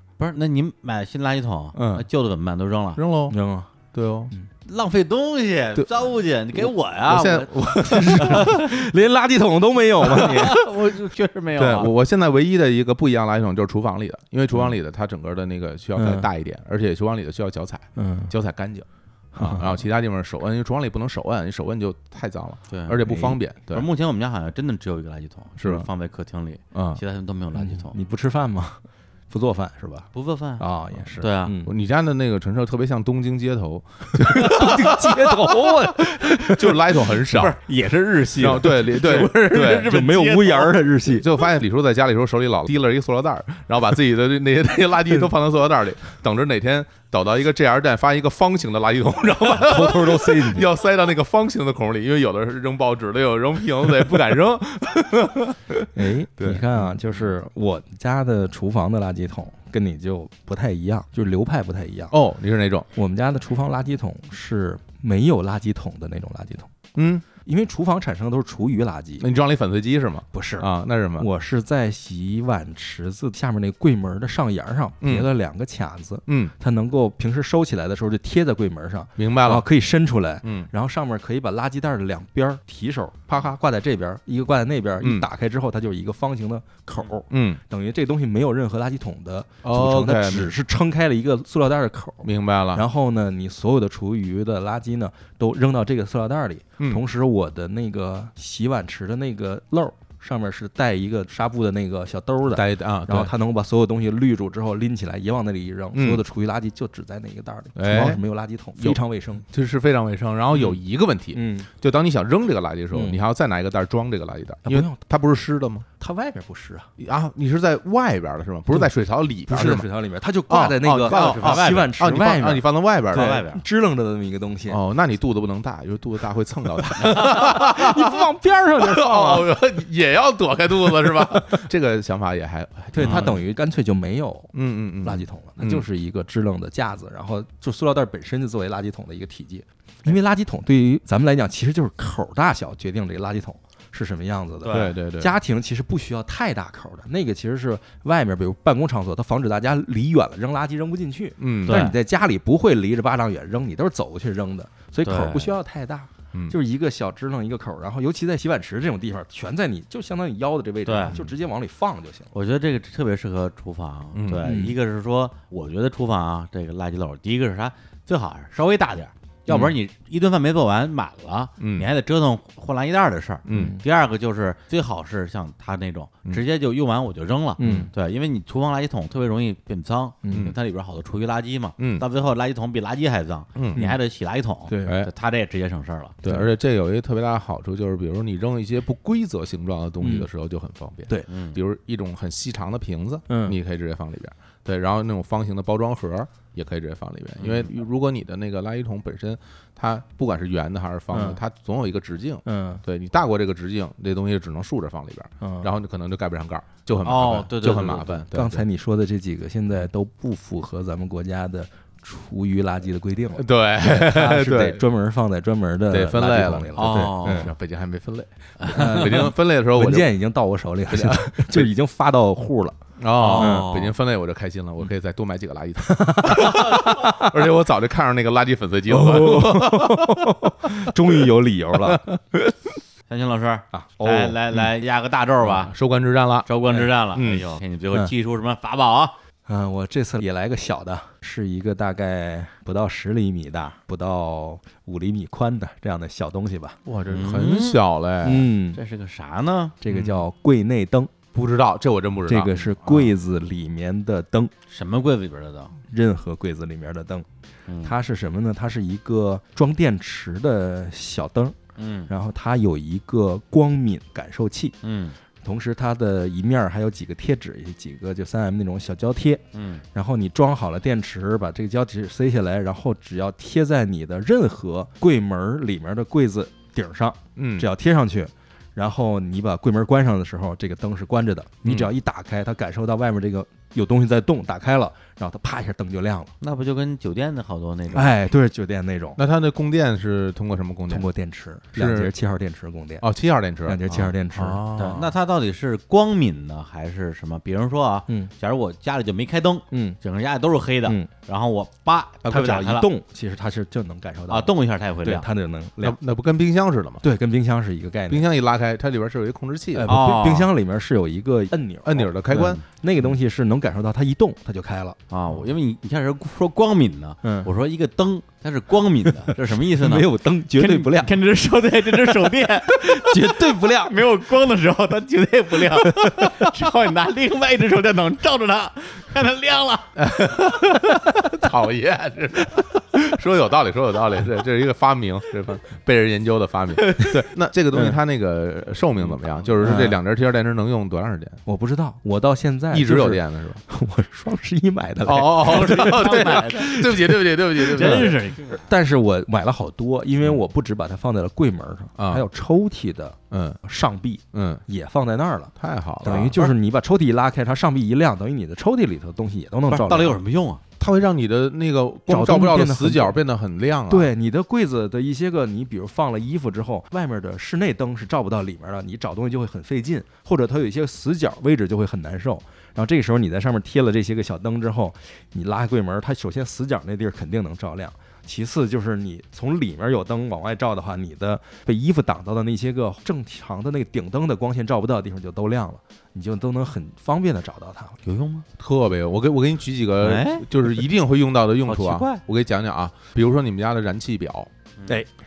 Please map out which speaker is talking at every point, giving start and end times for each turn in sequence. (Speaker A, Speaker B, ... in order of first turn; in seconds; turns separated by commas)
Speaker A: 0.2-3.0, Speaker B: 1.7-2.0, Speaker B: 3.0-3.4, Speaker C: 3.3-3.7, Speaker B: 3.9-4.3, Speaker A: 4.7-8.5, Speaker B: 7.0-8.6, Speaker C: 7.8-10.6, Speaker A: 10.0-11.9, Speaker B: 10.1-10.5, Speaker B: 11.6-23.9, Speaker C: 15.9-16.3, Speaker C: 17.9-18.3, Speaker C: 19.3-19.8, Speaker A: 22.7-23.0, Speaker C: 23.1-23.4, Speaker A: 23.7-28.0, Speaker B: 25.6-25.9, Speaker B: 26.7-27.0, Speaker C: 27.6-31.7, Speaker A: 30.1-31.6, Speaker B: 31.6-37.6, Speaker C: 34.1-37.1, Speaker A: 37.3-40.8, Speaker B: 38.4-39.9, Speaker C: 39.7-41.3, Speaker B: 41.1-57.0, Speaker C: 49.4-50.7, Speaker C: 55.9-62.1, Speaker B: 62.1-62.9, Speaker C: 62.9-66.7, Speaker B: 67.0-67.2, Speaker C: 67.4-69.2, Speaker B: 69.2-71.3, Speaker C: 70.3-109.4, Speaker B: 75.0-75.3, Speaker B: 76.3-76.5, Speaker B: 79.2-79.7, Speaker B: 80.4-80.7, Speaker B: 85.0-85.3, Speaker B: 87.3-87.6, Speaker B: 89.6-90.5, Speaker B: 92.2-92.8, Speaker B: 102.5-103.3, Speaker B: 105.9-106.2, Speaker B: 107.7-108.2, Speaker B: 108.8-115.9, Speaker C: 111.3-111.7, Speaker C: 112.9-113.2, Speaker C: 114.6-115.0, Speaker C: 116.0-116.9, Speaker B: 117.0-119.9, Speaker C: 119.5-124.8, Speaker B: 120.5-123.4, Speaker A: 121.0-121.9, Speaker A: 123.1-123.6, Speaker B: 124.7-133.4, Speaker C: 127.0-129.5, Speaker C: 130.9-131.4, Speaker C: 132.9-162.3, Speaker A: 133.0-133.3, Speaker B: 134.5-135.8, Speaker A: 144.6-144.9, Speaker B: 144.7-145.3, Speaker B: 151.4-151.9, Speaker A: 151.7-151.9, Speaker A: 155.0-155.5, Speaker A: 160.8-161.2, Speaker A: 162.3-186.2, Speaker B: 164.1-164.6, Speaker C: 164.4-164.7, Speaker B: 171.6-171.9, Speaker B: 173.5-173.8, Speaker C: 173.5-173.8, Speaker C: 177.6-177.9, Speaker B: 177.6-177.9, Speaker C: 180.2-180.5, Speaker B: 181.8-182.0, Speaker B: 183.6-183.9, Speaker C: 184.7-185.0, Speaker B: 184.8-185.1, Speaker B: 186.2-208.7, Speaker C: 190.0-190.3, Speaker A: 191.3-191.6, Speaker C: 193.3-193.6, Speaker A: 197.4-197.7, Speaker C: 201.1-201.4, Speaker C: 202.4-202.8, Speaker C: 205.4-205.7, Speaker A: 207.0-208.2, Speaker C: 208.3-217.5, Speaker B: 213.3-214.8, Speaker B: 215.9-220.1, Speaker A: 216.8-217.5, Speaker A: 218.6-219.0, Speaker C: 218.7-222.8, Speaker B: 220.9-221.7, Speaker B: 223.0-230.3, Speaker A: 223.2-223.9, Speaker C: 223.3-223.8, Speaker C: 225.8-227.3, Speaker C: 228.9-232.1, Speaker B: 231.8-232.2, Speaker A: 233.1-235.7, Speaker C: 233.7-234.4, Speaker B: 235.4-237.5, Speaker A: 236.4-239.2, Speaker C: 239.4-246.8, Speaker B: 246.8-248.5, Speaker A: 247.1-247.8, Speaker C: 248.2-248.8, Speaker A: 248.7-249.8, Speaker C: 249.8-251.1, Speaker B: 249.8-250.2, Speaker B: 251.3-253.1, Speaker C: 252.3-254.5, Speaker A: 254.7-255.8, Speaker C: 255.9-257.3, Speaker A: 257.7-257.9, Speaker C: 257.8-264.8, Speaker A: 261.8-262.1, Speaker A: 264.8-265.2, Speaker C: 265.4-286.3, Speaker A: 269.5-269.8, Speaker B: 277.4-277.7, Speaker B: 281.6-281.9, Speaker A: 286.4-288.1, Speaker C: 287.9-289.2, Speaker B: 289.2-291.1, Speaker C: 290.9-293.1, Speaker B: 291.7-292.1, Speaker B: 293.0-295.0, Speaker C: 293.6-295.1, Speaker A: 294.8-302.9, Speaker C: 299.7-300.0, Speaker C: 302.2-306.0, Speaker A: 304.3-305.2, Speaker B: 305.8-307.0, Speaker C: 307.0-308.3, Speaker B: 308.1-309.9, Speaker C: 309.7-315.0, Speaker A: 309.9-310.5, Speaker B: 311.8-312.6, Speaker A: 315.1-329.9, Speaker C: 317.2-317.5, Speaker C: 319.3-321.1, Speaker C: 321.9-324.1, Speaker C: 325.6-326.5, Speaker B: 330.0-341.4, Speaker C: 339.6-340.0, Speaker C: 341.4-360.2, Speaker B: 342.7-343.6, Speaker B: 345.0-348.2, Speaker A: 345.4-346.8, Speaker A: 347.7-348.6, Speaker B: 352.0-352.2, Speaker B: 353.3-353.6, Speaker B: 354.3-354.6, Speaker B: 355.6-356.4, Speaker A: 359.7-360.6, Speaker B: 360.8-364.1, Speaker C: 362.1-363.2, Speaker C: 363.9-388.0, Speaker A: 388.0-388.4, Speaker B: 388.6-394.5, Speaker A: 390.0-390.5, Speaker A: 391.6-392.2